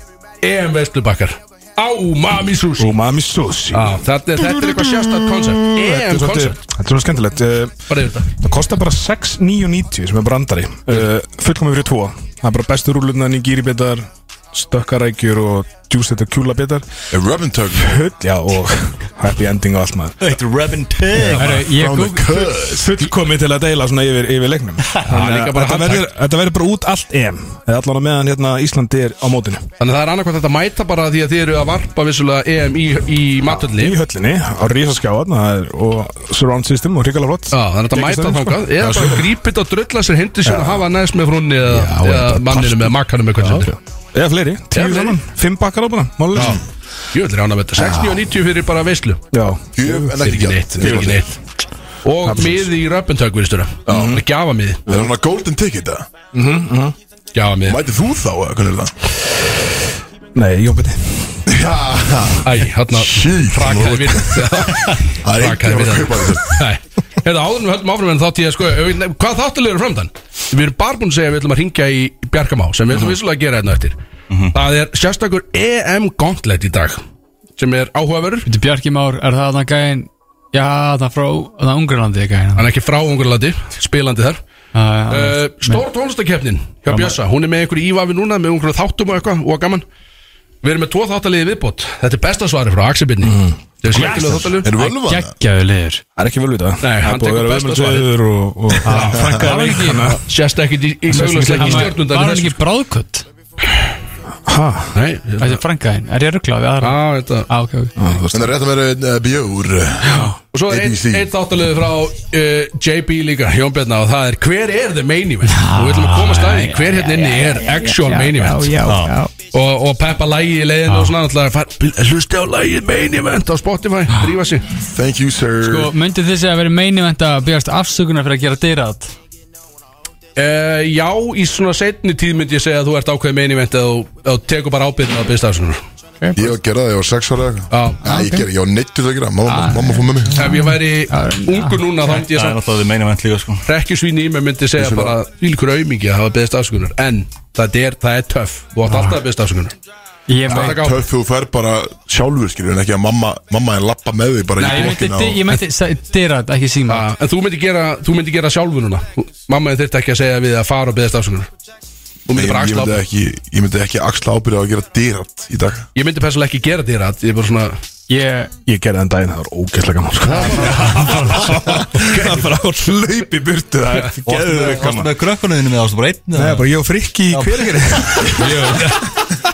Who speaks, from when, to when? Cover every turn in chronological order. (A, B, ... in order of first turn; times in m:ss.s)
0:00.4-0:03.0 A
0:02.8-0:07.7 B
0:03.7-0:06.6 A
0:07.9-0:08.3 A
0:08.4-0:16.8 B
0:17.1-0:18.0 C
0:17.8-0:20.4 B
0:20.2-0:21.7 D
0:21.4-0:22.6 E
0:21.4-0:23.0 C
0:22.7-0:29.6 B
0:25.1-0:26.1 A
0:29.8-0:34.0 A
0:33.4-0:39.3 B
0:37.5-0:43.7 A
0:40.4-0:40.8 B
0:41.6-0:46.6 B
0:44.7-0:45.2 A
0:46.3-0:46.6 C
0:47.1-0:49.2 A
0:49.3-0:50.2 B
0:49.7-0:51.2 C
0:50.2-0:51.4 A
0:50.8-0:51.2 B
0:52.0-0:54.8 A
0:52.2-0:52.7 B
0:53.9-0:54.2 B
0:53.9-0:54.2 C
0:54.9-0:56.1 C
0:56.3-0:56.9 B
0:57.3-0:57.8 A
0:57.6-0:58.9 C
1:00.3-1:01.5 B
1:01.5-1:06.6 C
1:02.4-1:14.0 A
1:14.3-1:14.6 D
1:14.5-1:17.0 A
1:17.6-1:18.4 A
1:18.4-1:22.7 E
1:22.6-1:24.4 A
1:24.7-1:25.8 E
1:25.1-1:29.8 A
1:30.6-1:34.7 A
1:33.2-1:34.4 B
1:33.9-1:36.0 E
1:34.6-1:35.3 C
1:36.2-1:40.2 B
1:36.8-1:38.1 A
1:38.8-1:42.6 A
1:38.9-1:40.2 E
1:41.1-1:41.9 B
1:41.2-1:43.2 E
1:44.4-1:45.0 B
1:44.9-1:45.6 A
1:45.4-1:47.9 E
1:46.8-1:47.5 A
1:48.0-1:48.5 B
1:48.3-1:51.3 C
1:50.0-1:50.3 E
1:50.5-1:58.8 A
1:55.4-1:59.3 E
1:58.8-1:59.2 D
1:59.5-2:04.7 A
2:00.9-2:01.2 E
2:04.8-2:05.9 C
2:05.6-2:09.1 E
2:10.4-2:15.8 A
2:16.2-2:16.5 E
2:16.4-2:20.6 C
2:17.7-2:18.0 A
2:18.0-2:18.4 E
2:19.4-2:21.8 E
2:20.3-2:22.6 A
2:22.1-2:23.6 D
2:23.6-2:29.8 A
2:24.8-2:25.2 C
2:28.9-2:29.2 E
2:30.3-2:30.8 E
2:30.4-2:35.6 C
2:30.5-2:31.0 A
2:34.6-2:37.0 E
2:36.9-2:41.5 A
2:42.3-2:43.0 A
2:42.3-2:45.9 C
2:45.9-2:47.8 A
2:48.1-2:48.5 E
2:48.6-2:55.1 B
2:50.3-2:51.5 A
2:50.6-2:51.0 E
2:51.0-2:52.2 C
2:52.1-2:52.4 A
2:52.8-2:53.4 C
2:54.2-2:56.7 D
2:56.3-2:58.6 B
2:57.3-2:58.2 D
2:58.4-2:59.2 A